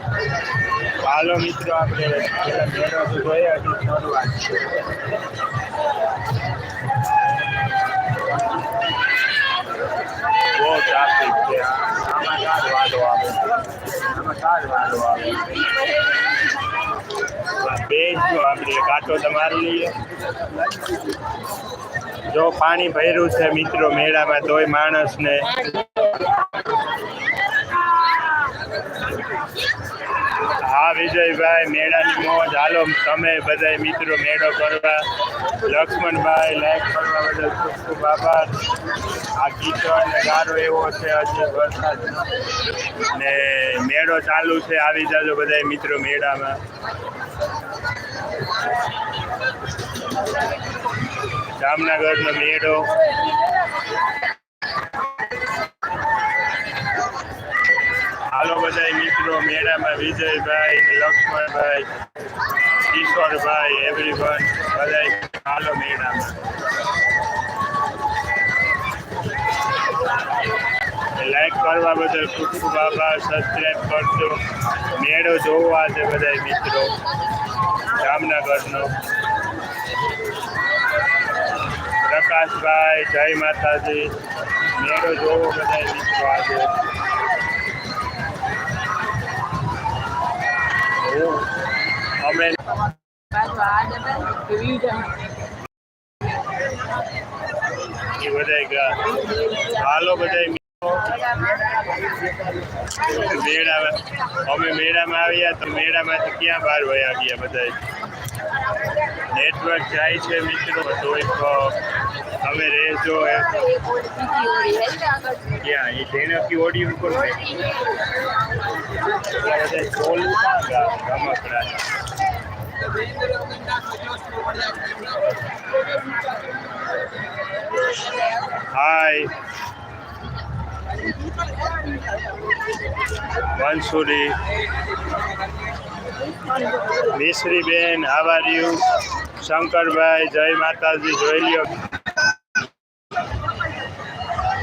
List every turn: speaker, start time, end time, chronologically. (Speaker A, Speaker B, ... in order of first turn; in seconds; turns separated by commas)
Speaker A: 1.0-4.6, Speaker A: 10.5-15.6, Speaker B: 15.5-16.9, Speaker A: 17.6-19.9, Speaker A: 22.3-25.8, Speaker A: 30.6-35.1, Speaker A: 35.6-38.6, Speaker A: 39.3-42.3, Speaker A: 43.1-46.6, Speaker A: 51.5-53.0, Speaker A: 58.3-61.9, Speaker A: 62.8-66.4, Speaker A: 71.1-74.4, Speaker A: 74.9-76.9, Speaker A: 77.9-78.9, Speaker A: 82.0-84.2, Speaker A: 84.7-86.7, Speaker A: 91.0-91.5, Speaker A: 92.2-92.8, Speaker B: 93.3-95.3, Speaker A: 98.1-101.1, Speaker B: 101.2-101.7, Speaker A: 103.0-107.8, Speaker A: 109.3-111.8, Speaker A: 112.4-113.5, Speaker B: 113.4-115.6, Speaker A: 115.5-117.6, Speaker B: 117.5-117.9, Speaker A: 119.3-121.9, Speaker A: 128.6-129.3, Speaker A: 133.5-134.4, Speaker A: 137.0-141.8